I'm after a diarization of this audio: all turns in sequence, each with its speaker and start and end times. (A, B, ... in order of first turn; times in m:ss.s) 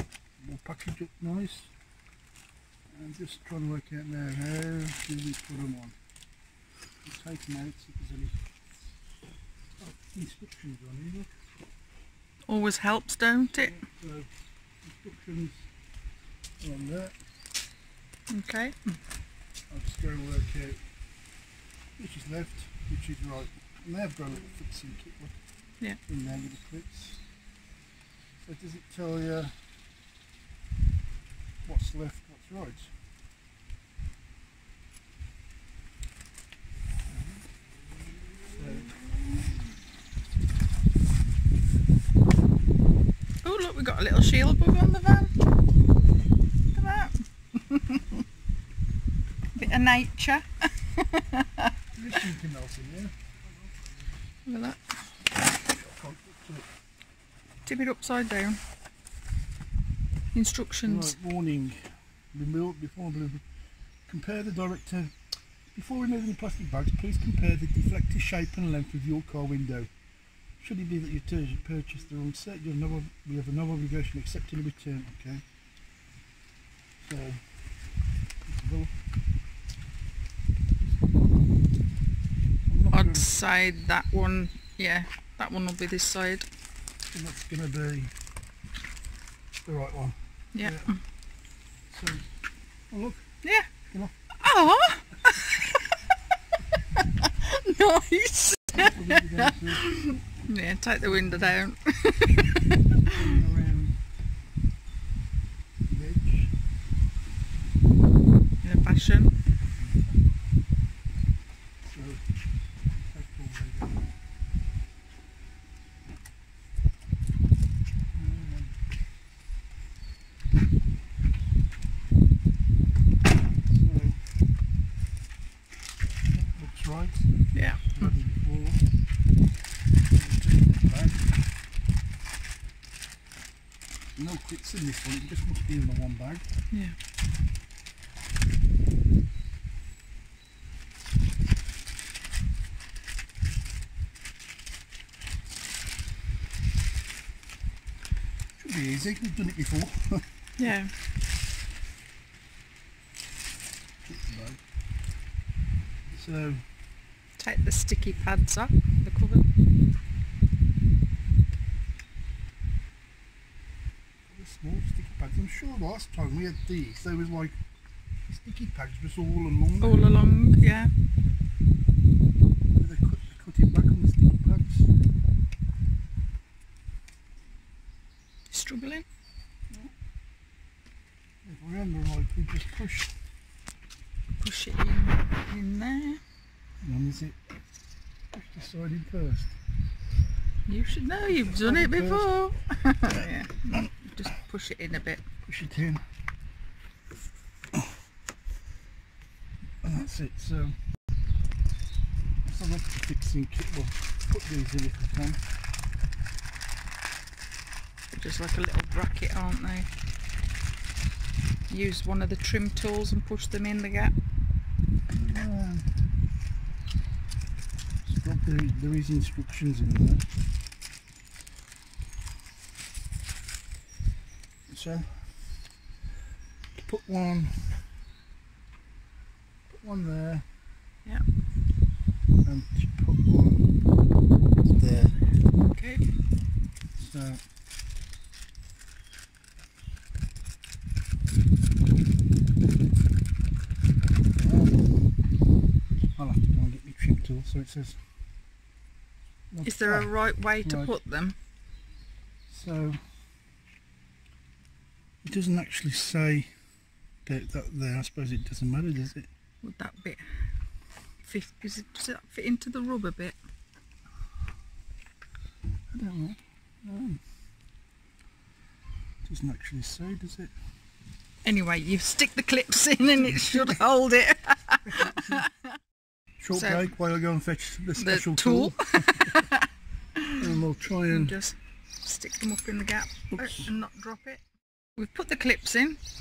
0:00.4-0:01.7 A
0:02.9-0:06.0 A
0:07.0-0:08.5 A
0:09.8-0:11.5 A
0:12.5-0:13.8 B
0:13.5-0:15.7 A
0:16.6-0:17.2 A
0:18.3-0:19.0 B
0:19.7-0:20.9 A
0:22.0-0:27.3 A
0:28.4-0:29.6 A
0:31.6-0:33.0 A
0:37.1-0:37.4 A
0:38.6-0:39.0 A
0:43.4-0:45.3 B
0:46.7-0:48.2 B
0:49.6-0:51.7 B
0:51.9-0:53.3 A
0:54.4-0:55.2 B
0:55.5-0:56.7 A
0:57.6-0:58.6 B
1:00.3-1:01.1 B
1:00.8-1:15.5 A
1:17.0-1:17.9 A
1:18.4-1:19.0 A
1:22.7-1:23.3 A
1:22.9-1:26.5 B
1:27.1-1:28.2 A
1:29.6-1:31.1 A
1:30.5-1:31.0 B
1:31.9-1:32.4 A
1:32.9-1:33.3 A
1:33.4-1:33.7 B
1:34.4-1:35.8 B
1:37.0-1:42.7 B
1:38.7-1:39.9 A
1:41.2-1:41.5 A
1:43.1-1:44.0 A
1:45.9-1:46.6 A
1:48.6-1:49.3 B
1:49.8-1:50.4 A
1:51.9-1:54.1 A
1:58.1-1:58.8 A
2:03.6-2:04.3 A
2:06.3-2:09.0 A
2:07.5-2:08.1 B
2:10.1-2:11.4 A
2:14.2-2:16.6 A
2:16.7-2:17.0 B
2:28.6-2:30.7 A
2:30.6-2:31.0 B
2:34.1-2:34.8 A
2:36.1-2:36.7 A
2:37.4-2:39.4 B
2:44.3-2:47.6 A
2:48.2-2:50.9 A
2:49.8-2:50.9 B
2:52.7-2:54.9 A
2:58.5-2:59.0 B
3:01.4-3:03.1 A
3:04.4-3:06.2 B
3:06.8-3:07.4 A
3:08.3-3:09.6 A
3:10.7-3:15.2 B
3:11.4-3:13.1 A
3:15.4-3:16.0 A
3:19.8-3:20.8 A
3:22.4-3:25.5 A
3:28.1-3:29.9 B
3:31.7-3:34.2 B
3:35.1-3:36.0 A
3:38.0-3:40.3 A
3:44.7-3:45.7 A
3:46.8-3:47.8 A
3:49.7-3:50.5 A
3:52.4-3:53.7 A
3:54.6-3:55.2 A
3:55.5-3:56.1 B
3:57.0-3:57.4 A
4:04.3-4:05.1 A
4:06.2-4:08.0 A
4:09.5-4:10.9 A
4:09.6-4:11.4 B
4:12.5-4:13.1 A
4:15.2-4:16.6 A
4:17.2-4:19.3 A
4:19.6-4:20.2 B
4:21.2-4:23.4 B
4:25.9-4:27.2 A
4:29.2-4:30.5 A
4:31.4-4:35.7 B
4:34.9-4:35.4 A
4:36.4-4:39.4 A
4:36.5-4:36.9 B
4:38.0-4:39.6 B
4:40.2-4:40.5 B
4:40.4-4:41.4 A
4:41.1-4:44.4 B
4:43.3-4:43.7 A
4:45.0-4:46.0 B